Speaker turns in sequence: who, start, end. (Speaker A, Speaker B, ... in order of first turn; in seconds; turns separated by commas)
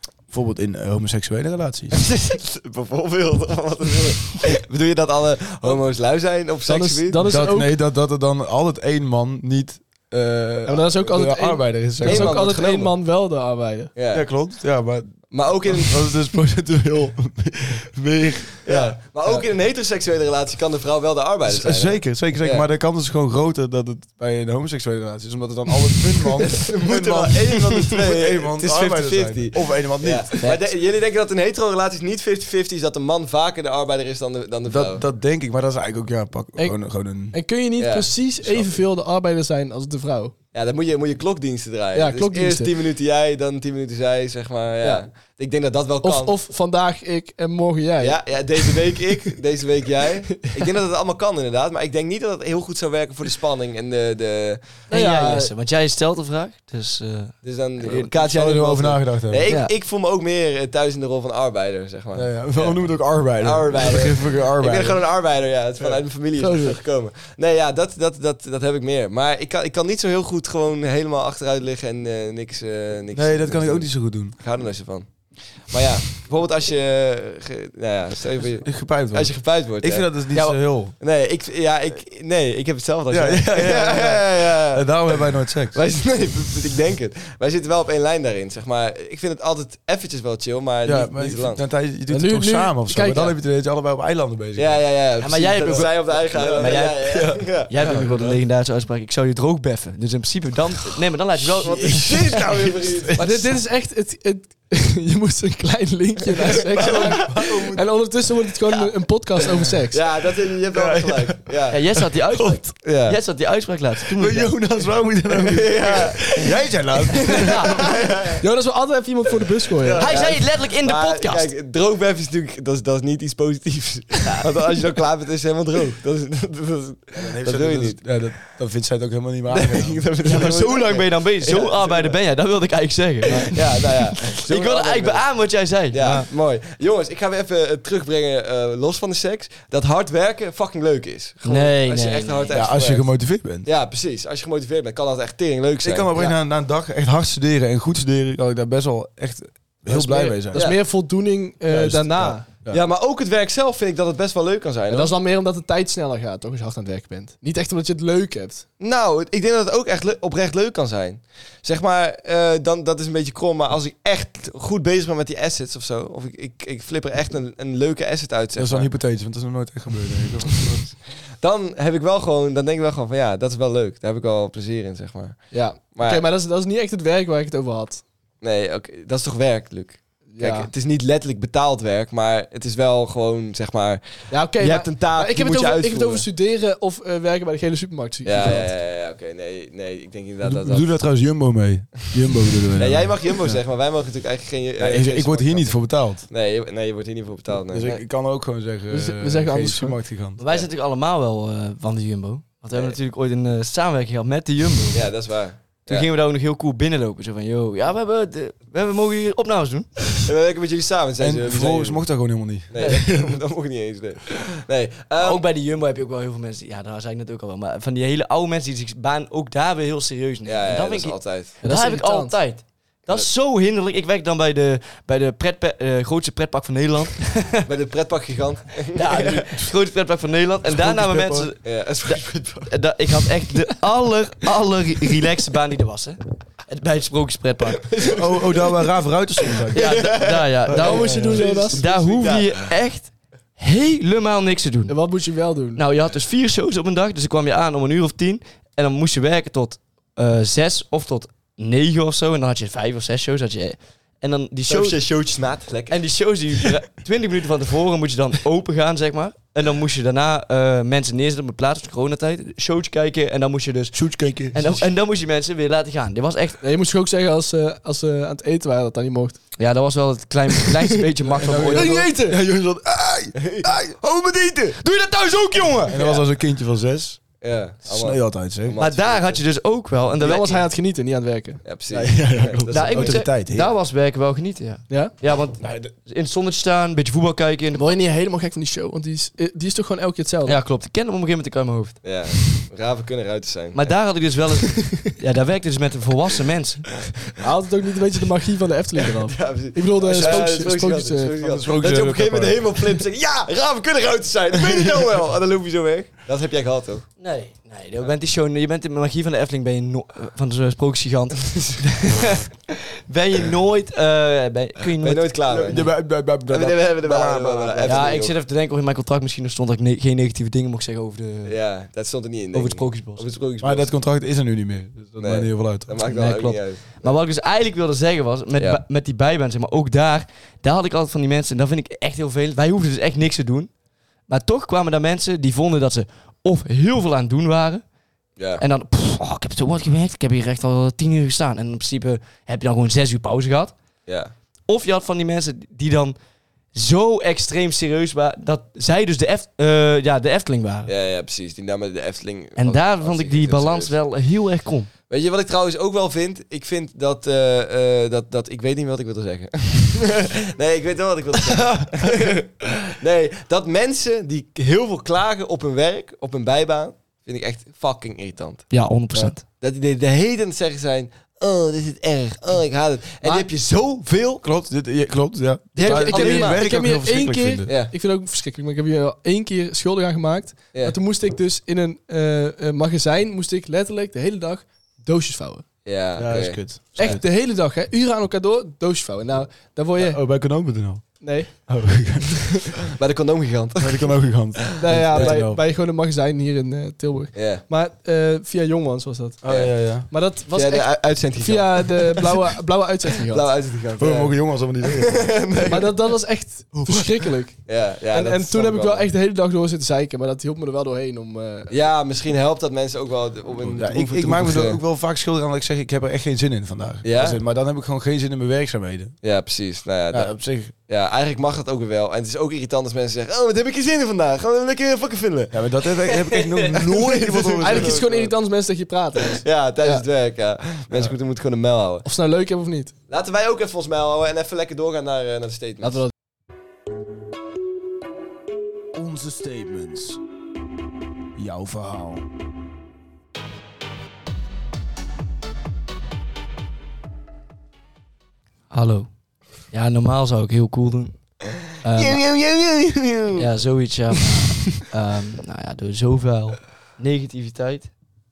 Speaker A: 0.3-2.0, Speaker B: 1.9-7.3, Speaker C: 6.7-7.8, Speaker A: 7.2-12.3, Speaker C: 10.7-13.9, Speaker B: 12.0-12.9, Speaker B: 13.9-14.2, Speaker A: 14.1-19.4, Speaker B: 15.3-16.0, Speaker B: 18.6-22.6, Speaker A: 21.4-30.5, Speaker B: 26.4-35.0, Speaker A: 34.6-37.4, Speaker C: 36.6-40.3, Speaker B: 37.8-38.1, Speaker B: 40.5-46.3, Speaker C: 41.9-42.7, Speaker C: 46.0-49.0, Speaker B: 48.0-54.9, Speaker D: 54.9-58.1, Speaker C: 54.9-55.5, Speaker B: 57.4-80.1, Speaker A: 58.1-59.5, Speaker A: 62.1-65.0, Speaker C: 66.4-66.8, Speaker A: 73.1-74.4, Speaker A: 78.6-80.9, Speaker B: 81.0-91.6, Speaker A: 83.1-85.8, Speaker A: 90.8-94.9, Speaker C: 92.1-93.3, Speaker B: 94.5-98.3, Speaker D: 95.2-102.4, Speaker A: 95.6-98.4, Speaker A: 101.6-103.2, Speaker B: 101.6-103.5, Speaker C: 103.2-110.0, Speaker A: 106.7-107.9, Speaker B: 109.9-111.8, Speaker A: 110.7-112.6, Speaker D: 111.7-114.6, Speaker B: 112.8-113.2, Speaker A: 114.0-118.0, Speaker B: 115.3-116.5, Speaker B: 117.3-118.4, Speaker C: 118.4-120.1, Speaker A: 119.8-120.3, Speaker B: 120.0-128.0, Speaker D: 120.0-121.5, Speaker A: 127.1-130.0, Speaker B: 129.5-132.2, Speaker D: 130.2-136.3, Speaker B: 133.3-135.3, Speaker B: 135.9-143.1, Speaker D: 141.4-142.6, Speaker A: 142.5-143.7, Speaker B: 143.6-146.1, Speaker A: 145.8-150.8, Speaker C: 149.9-152.4, Speaker B: 150.5-150.8, Speaker A: 151.7-152.8, Speaker B: 152.7-155.1, Speaker C: 154.9-158.7, Speaker B: 158.8-168.9, Speaker A: 168.5-170.9, Speaker B: 170.5-176.2, Speaker C: 175.5-178.0, Speaker B: 178.4-186.2, Speaker C: 180.3-180.7, Speaker C: 184.3-188.7, Speaker B: 188.2-190.9, Speaker A: 190.4-193.6, Speaker B: 192.8-198.0, Speaker A: 194.8-196.2, Speaker A: 197.7-200.4, Speaker C: 198.9-200.0, Speaker D: 200.4-205.1, Speaker B: 204.9-206.1, Speaker D: 205.8-210.2, Speaker B: 210.2-212.0, Speaker A: 211.2-213.4, Speaker B: 212.7-215.4, Speaker D: 215.2-227.7, Speaker B: 220.4-221.5, Speaker C: 221.6-222.4, Speaker B: 227.7-229.5, Speaker D: 228.9-237.9, Speaker A: 230.6-231.5, Speaker B: 231.6-232.7, Speaker B: 237.8-238.9, Speaker A: 238.1-241.4, Speaker B: 239.7-242.7, Speaker D: 239.7-244.9, Speaker C: 240.8-241.8, Speaker C: 244.9-245.8, Speaker D: 245.7-255.0, Speaker B: 254.7-256.0, Speaker D: 255.9-266.6, Speaker A: 263.9-264.8, Speaker C: 266.6-269.4, Speaker D: 269.6-272.0, Speaker A: 271.3-274.8, Speaker C: 271.6-272.4, Speaker B: 273.4-273.6, Speaker D: 274.8-276.0, Speaker A: 275.9-277.2, Speaker B: 275.9-276.2, Speaker B: 277.4-279.4, Speaker A: 277.8-278.8, Speaker D: 278.8-280.6, Speaker C: 280.2-281.6, Speaker B: 281.6-283.2, Speaker A: 281.9-283.7, Speaker D: 282.7-287.8, Speaker C: 287.7-290.6, Speaker D: 290.4-292.0, Speaker B: 292.0-293.9, Speaker D: 293.7-297.0, Speaker C: 297.4-301.3, Speaker B: 299.3-307.1, Speaker A: 300.1-300.5, Speaker A: 301.4-302.8, Speaker A: 304.6-305.0, Speaker D: 307.2-315.7, Speaker B: 315.0-315.9, Speaker A: 315.5-318.3, Speaker B: 316.5-318.3, Speaker D: 317.8-321.6, Speaker B: 321.4-323.9, Speaker D: 322.5-323.2, Speaker A: 323.6-326.2, Speaker B: 325.2-327.2, Speaker D: 326.1-333.7, Speaker B: 328.6-328.8, Speaker D: 334.3-337.8, Speaker B: 338.4-338.6, Speaker D: 338.6-343.7, Speaker B: 344.1-344.3, Speaker D: 344.7-346.1, Speaker D: 346.7-350.9, Speaker B: 350.9-353.9, Speaker D: 352.6-354.9, Speaker B: 355.1-374.4, Speaker D: 368.7-369.4, Speaker A: 374.4-377.7, Speaker B: 375.8-376.7, Speaker C: 375.8-385.6, Speaker B: 377.6-377.9, Speaker B: 385.8-387.2, Speaker A: 386.1-387.2, Speaker C: 386.9-390.2, Speaker A: 390.0-392.8, Speaker C: 391.2-391.7, Speaker B: 393.0-394.2, Speaker A: 393.8-395.6, Speaker C: 394.8-403.5, Speaker B: 395.1-395.4, Speaker B: 397.3-397.6, Speaker A: 399.4-400.1, Speaker B: 399.5-399.8, Speaker B: 400.5-402.3, Speaker B: 403.3-405.9, Speaker A: 404.0-405.9, Speaker C: 405.7-411.7, Speaker A: 406.7-407.3, Speaker B: 407.6-409.1, Speaker B: 411.7-414.8, Speaker A: 413.6-419.2, Speaker B: 417.0-417.4, Speaker B: 419.2-420.4, Speaker A: 420.1-420.7, Speaker B: 420.9-428.3, Speaker A: 425.5-428.0, Speaker C: 427.6-430.0, Speaker B: 429.4-432.1, Speaker A: 430.9-431.1, Speaker C: 432.0-432.9, Speaker B: 433.1-436.1, Speaker A: 438.9-440.2, Speaker A: 441.4-442.3, Speaker D: 448.7-449.1, Speaker D: 449.7-451.1, Speaker D: 451.8-452.2, Speaker A: 452.0-453.1, Speaker B: 452.1-453.3, Speaker D: 453.4-457.9